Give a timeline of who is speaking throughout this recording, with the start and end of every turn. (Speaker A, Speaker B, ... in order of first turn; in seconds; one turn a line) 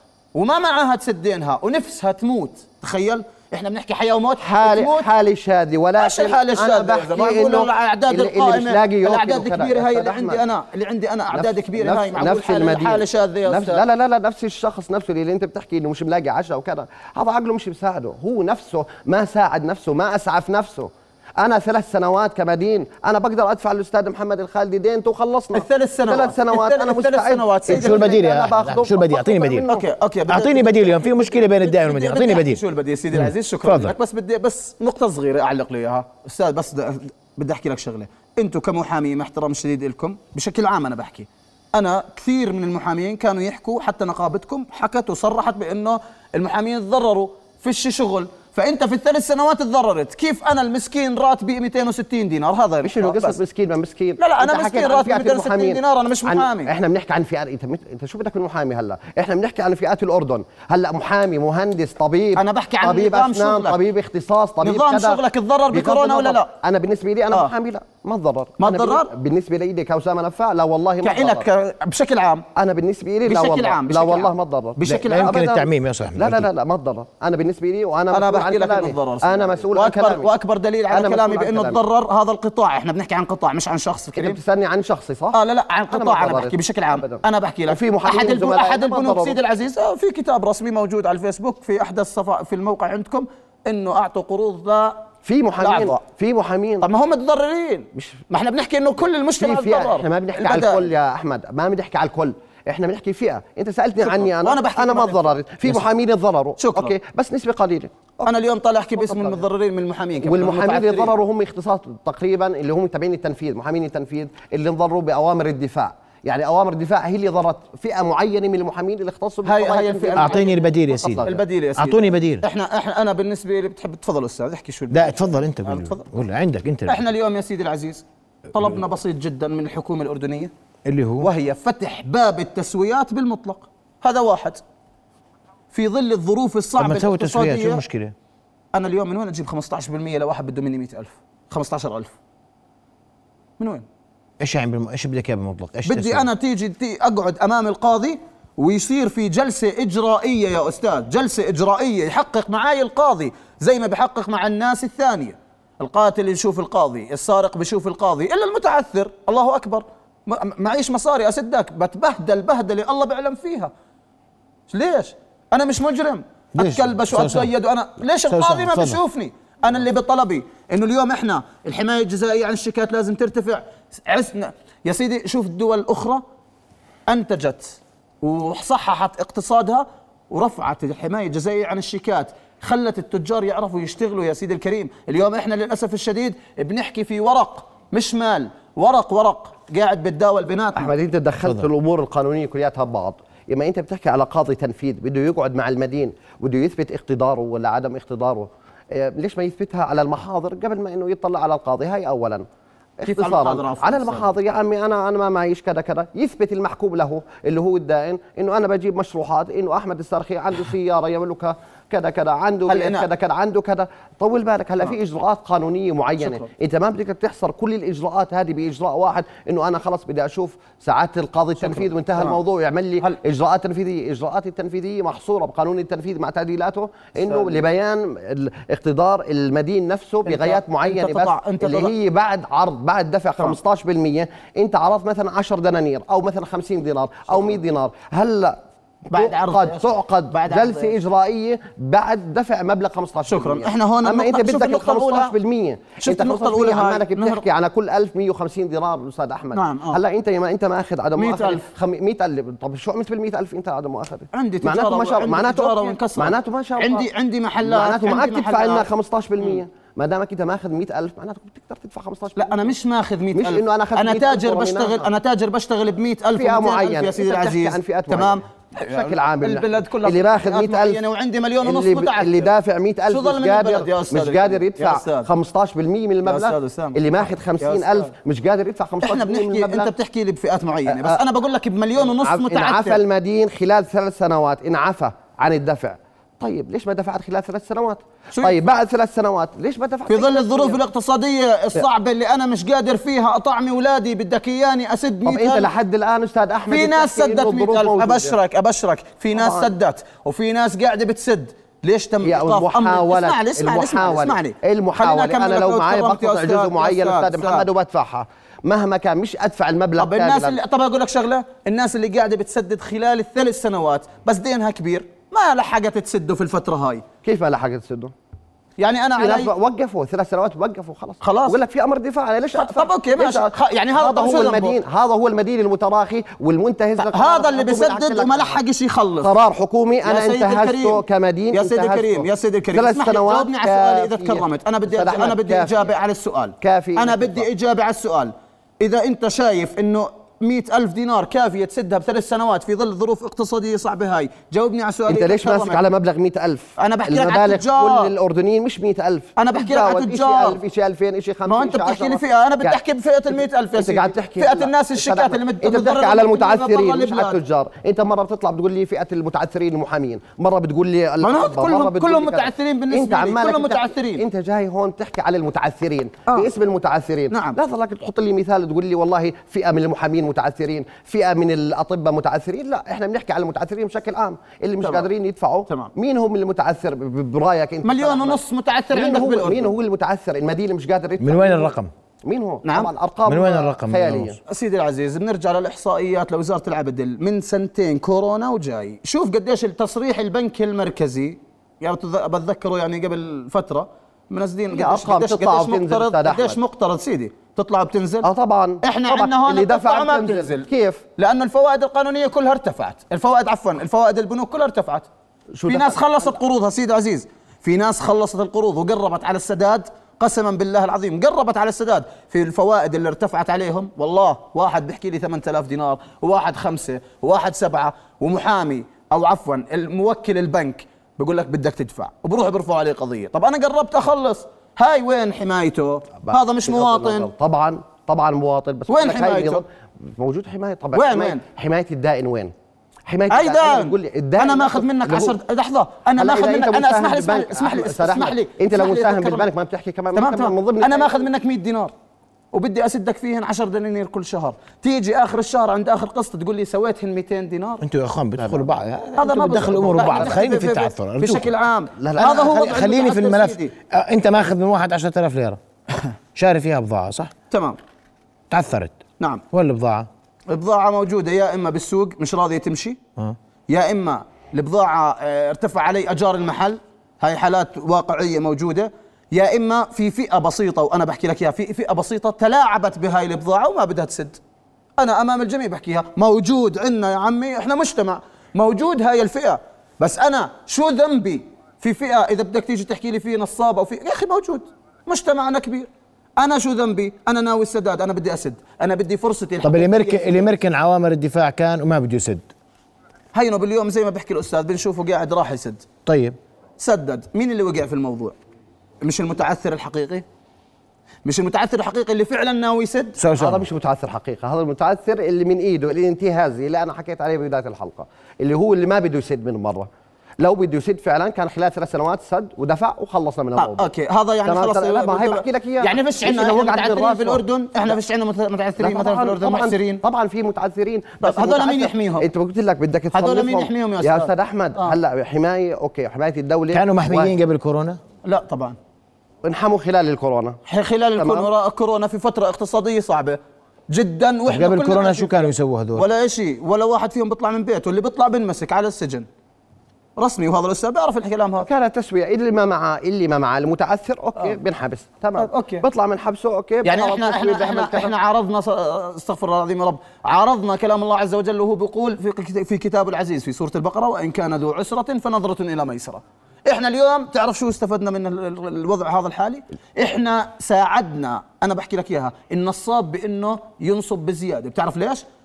Speaker A: 0.3-5.1
Speaker B: 4.4-10.4
Speaker A: 6.0-13.8
Speaker B: 11.3-29.9
Speaker A: 25.5-28.2
Speaker C: 27.7-29.7
Speaker A: 29.7-53.4
Speaker C: 30.3-32.6
Speaker C: 33.1-33.9
Speaker B: 52.8-71.5
Speaker A: 54.2-56.7
Speaker A: 62.4-63.8
Speaker A: 64.6-66.5
Speaker A: 68.6-69.1
Speaker A: 71.0-72.5
Speaker B: 72.6-80.3
Speaker A: 73.3-75.4
Speaker C: 74.8-76.5
Speaker A: 78.1-84.4
Speaker B: 80.9-81.8
Speaker B: 84.2-85.4
Speaker A: 85.3-95.1
Speaker B: 85.9-89.4
Speaker B: 95.2-96.9
Speaker A: 95.6-96.0
Speaker A: 96.8-100.9
Speaker B: 98.0-98.2
Speaker B: 99.4-108.3
Speaker A: 104.0-105.8
Speaker A: 106.6-107.0
Speaker A: 108.2-111.1
Speaker B: 109.0-109.4
Speaker B: 110.2-121.4
Speaker A: 119.5-120.6
Speaker C: 120.2-122.5
Speaker A: 121.2-126.1
Speaker C: 124.9-127.0
Speaker A: 126.9-130.5
Speaker C: 130.9-131.3
Speaker A: 131.2-134.6
Speaker A: 135.7-137.8
Speaker C: 136.8-138.1
Speaker A: 138.7-142.1
Speaker A: 143.6-143.9
Speaker C: 144.4-146.3
Speaker A: 145.9-163.7
Speaker A: 164.7-176.2
Speaker C: 166.6-167.5
Speaker C: 168.3-169.0
Speaker A: 177.1-190.9
Speaker B: 190.8-202.4
Speaker B: 203.0-257.1
Speaker A: 203.1-204.3
Speaker A: 212.7-213.1
Speaker A: 216.2-216.5
Speaker A: 221.6-222.4
Speaker A: 227.3-227.6
Speaker A: 230.3-231.9
Speaker A: 239.1-241.0
Speaker A: 243.3-245.3
Speaker A: 246.0-247.4
Speaker A: 249.5-250.0
Speaker A: 251.2-251.6
Speaker A: 254.3-258.9
Speaker B: 257.6-262.7
Speaker A: 262.4-272.5
Speaker B: 263.3-265.1
Speaker B: 266.4-271.0
Speaker B: 271.6-279.9
Speaker A: 273.1-275.3
Speaker A: 276.3-278.1
Speaker A: 279.0-283.0
Speaker B: 280.9-281.2
Speaker B: 282.0-290.8
Speaker A: 288.3-288.6
Speaker A: 290.1-295.7
Speaker B: 295.2-298.4
Speaker A: 296.7-307.7
Speaker B: 299.3-299.7
Speaker B: 302.2-310.6
Speaker A: 310.0-317.1
Speaker B: 317.2-318.1
Speaker A: 318.8-319.5
Speaker B: 319.2-328.6
Speaker A: 321.2-321.6
Speaker A: 322.6-324.8
Speaker A: 327.0-329.3
Speaker B: 329.2-335.9
Speaker A: 330.0-345.8
Speaker B: 336.6-337.5
Speaker B: 345.1-352.8
Speaker A: 346.8-348.1
Speaker A: 349.4-350.6
Speaker A: 351.5-357.4
Speaker B: 353.8-381.7
Speaker A: 361.2-364.2
Speaker A: 367.3-367.6
Speaker A: 374.8-375.1
Speaker A: 377.8-379.7
Speaker C: 381.2-381.9
Speaker B: 382.2-384.4
Speaker A: 382.6-382.9
Speaker C: 383.3-384.4
Speaker A: 384.5-398.3
Speaker B: 394.7-396.6
Speaker B: 398.2-401.0
Speaker A: 398.8-405.1
Speaker B: 405.6-406.0
Speaker A: 405.7-427.3
Speaker B: 426.3-432.5
Speaker A: 428.9-429.6
Speaker A: 430.9-431.4
Speaker B: 433.1-435.4
Speaker A: 433.3-439.5
Speaker B: 436.2-441.3
Speaker A: 440.1-441.9
Speaker A: 442.5-447.8
Speaker C: 447.8-451.5
Speaker B: 448.4-448.7
Speaker A: 449.2-453.7
Speaker B: 449.9-450.4
Speaker B: 452.0-452.6
Speaker C: 452.2-455.6
Speaker C: 456.4-457.3
Speaker A: 457.5-457.8
Speaker C: 458.5-459.0
Speaker C: 459.5-460.1
Speaker A: 460.5-463.0
Speaker A: 463.7-474.4
Speaker A: 475.0-490.5
Speaker C: 489.6-492.4
Speaker A: 493.3-495.9
Speaker C: 496.1-496.4
Speaker A: 496.8-498.4
Speaker A: 499.0-500.2
Speaker A: 501.2-503.2
Speaker C: 503.2-503.6
Speaker B: 503.4-509.9
Speaker B: 510.4-513.9
Speaker A: 513.6-520.0
Speaker B: 514.4-518.0
Speaker B: 518.8-527.3
Speaker A: 521.2-522.3
Speaker A: 523.1-525.0
Speaker C: 526.7-528.0
Speaker A: 528.2-528.8
Speaker B: 529.4-530.6
Speaker A: 530.7-535.5
Speaker B: 531.2-531.5
Speaker C: 534.5-536.0
Speaker A: 536.0-539.3
Speaker A: 540.2-541.7
Speaker B: 541.6-548.1
Speaker A: 545.4-545.9
Speaker A: 546.8-565.2